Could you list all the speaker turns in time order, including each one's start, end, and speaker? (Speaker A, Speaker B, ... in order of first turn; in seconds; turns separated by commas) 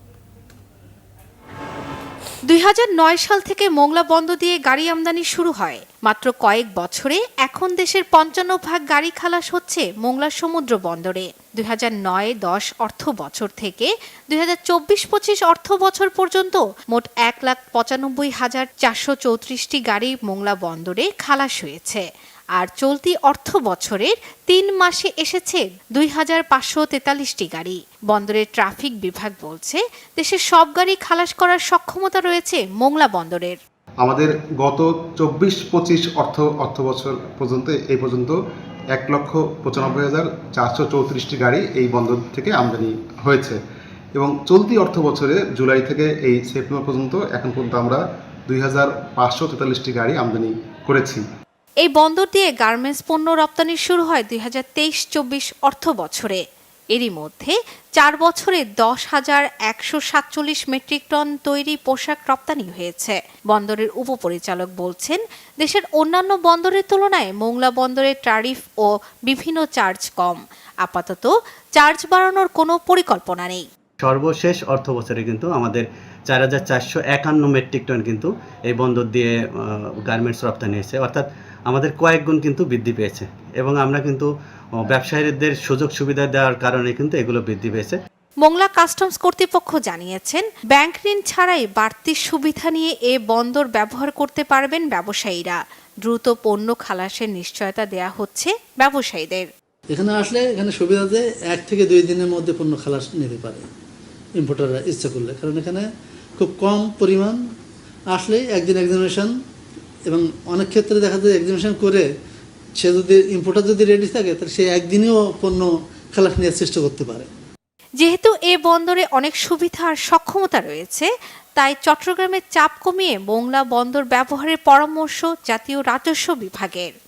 Speaker A: 2.4-22.0, Speaker A: 22.6-33.5, Speaker B: 34.0-38.3, Speaker B: 39.0-43.5, Speaker B: 44.2-51.2, Speaker A: 51.8-73.6, Speaker C: 74.0-84.3, Speaker C: 84.8-88.0, Speaker A: 88.4-99.5, Speaker D: 99.9-103.7, Speaker D: 104.4-105.9, Speaker D: 106.4-107.4, Speaker D: 108.1-109.3, Speaker D: 110.1-112.1, Speaker D: 112.8-117.3, Speaker A: 118.0-126.9